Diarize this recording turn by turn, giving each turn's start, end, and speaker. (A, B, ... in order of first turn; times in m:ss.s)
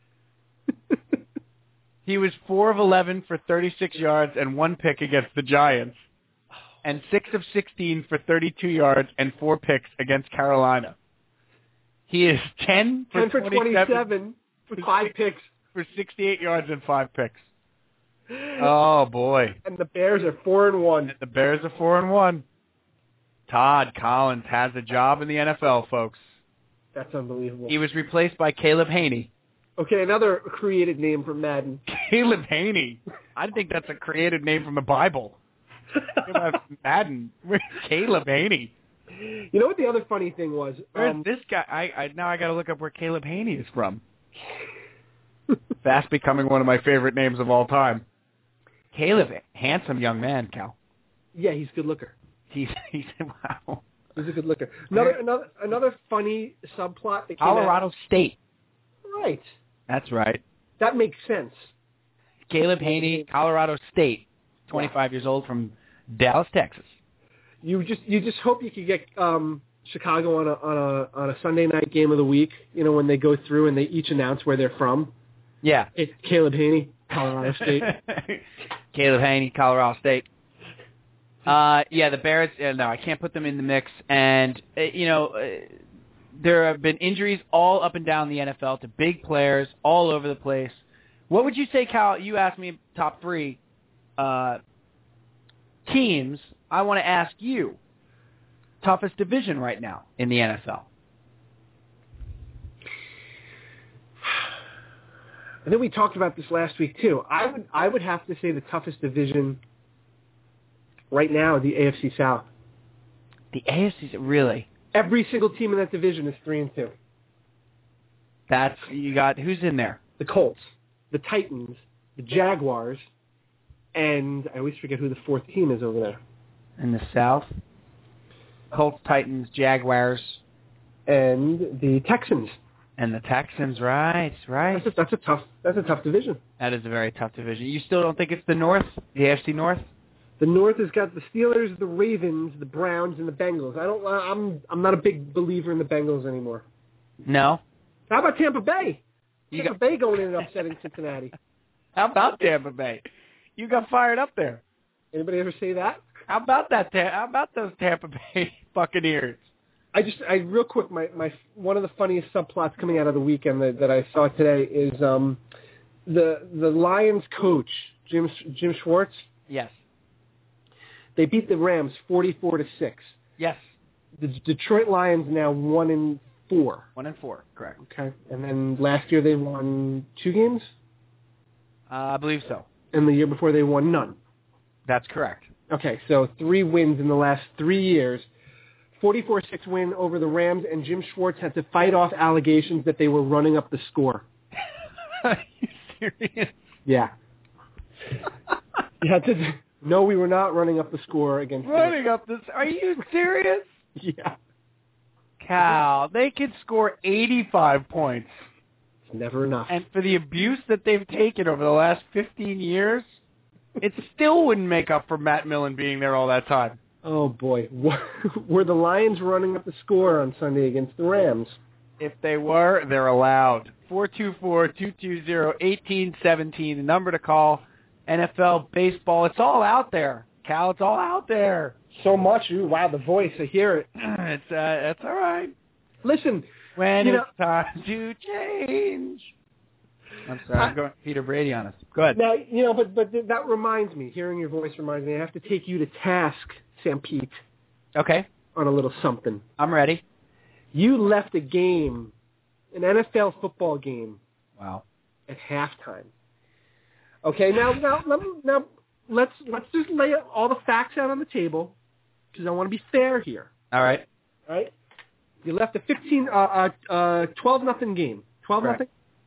0:02.0-0:06.0 A
0:06.8-0:11.0 A
0:12.1-0:14.0 A
0:13.1-0:15.4 B
0:14.8-0:15.1 A
0:15.7-0:17.5 A
0:18.3-0:18.7 B
0:18.6-0:19.6 A
0:19.6-0:21.1 B
0:21.1-0:22.4 A
0:23.5-0:26.3 A
0:26.9-0:27.7 B
0:27.7-0:29.3 A
0:29.8-0:31.8 B
0:31.9-0:35.4 A
0:36.2-0:38.7 A
0:39.1-0:41.2 B
0:41.0-0:44.0 A
0:45.8-0:48.0 A
0:48.9-0:50.7 A
0:51.3-0:52.1 B
0:52.5-0:53.8 A
0:54.2-0:57.8 B
0:57.4-0:58.4 A
0:59.0-0:59.4 B
0:59.9-1:00.4 A
1:00.8-1:01.7 B
1:02.5-1:07.0 A
1:02.8-1:03.2 B
1:07.6-1:15.1 B
1:15.6-1:15.9 A
1:15.9-1:17.9 B
1:17.5-1:20.2 A
1:21.4-1:25.8 A
1:26.3-1:33.6 A
1:34.2-1:34.6 A
1:35.8-1:37.8 A
1:38.8-1:40.8 A
1:45.6-1:49.6 B
1:51.1-1:52.5 B
1:53.5-1:54.7 A
1:54.9-1:56.9 B
1:58.5-2:00.0 A
2:00.2-2:03.0 B
2:03.9-2:06.2 B
2:06.8-2:07.5 A
2:08.7-2:10.4 A
2:11.1-2:12.6 B
2:13.0-2:14.9 A
2:14.7-2:16.4 B
2:16.6-2:19.8 A
2:20.4-2:26.6 B
2:27.2-2:27.6 A
2:28.1-2:31.3 B
2:32.0-2:33.0 A
2:33.6-2:34.6 A
2:35.1-2:36.0 B
2:36.3-2:39.5 A
2:39.9-2:45.4 B
2:46.0-2:49.2 B
2:49.5-2:49.8 A
2:51.2-2:53.1 B
2:53.4-2:53.7 A
2:54.2-2:56.9 B
2:57.0-2:57.8 A
2:57.8-3:00.7 B
3:01.9-3:02.6 A
3:02.9-3:04.2 B
3:04.9-3:05.5 A
3:05.7-3:08.3 B
3:09.0-3:14.2 B
3:15.2-3:16.7 A
3:16.8-3:17.1 B
3:19.0-3:22.0 B
3:21.6-3:23.8 A
3:24.0-3:24.4 B
3:25.4-3:28.3 A
3:29.1-3:29.8 B
3:29.7-3:33.1 A
3:33.8-3:36.8 A
3:37.0-3:41.6 B
3:42.0-3:51.8 A
3:51.9-3:53.9 B
3:54.0-3:55.5 A
3:56.0-3:56.5 B
3:56.8-3:59.3 A
3:57.0-3:57.3 B
4:00.2-4:02.2 A
4:02.1-4:07.4 B
4:08.0-4:08.2 A
4:08.5-4:09.4 B
4:09.6-4:10.0 A
4:10.7-4:12.1 B
4:12.7-4:14.2 B
4:14.6-4:14.8 A
4:15.3-4:16.1 B
4:17.2-4:21.8 B
4:22.3-4:23.5 B
4:23.7-4:24.0 A
4:24.5-4:24.7 B
4:25.4-4:28.9 B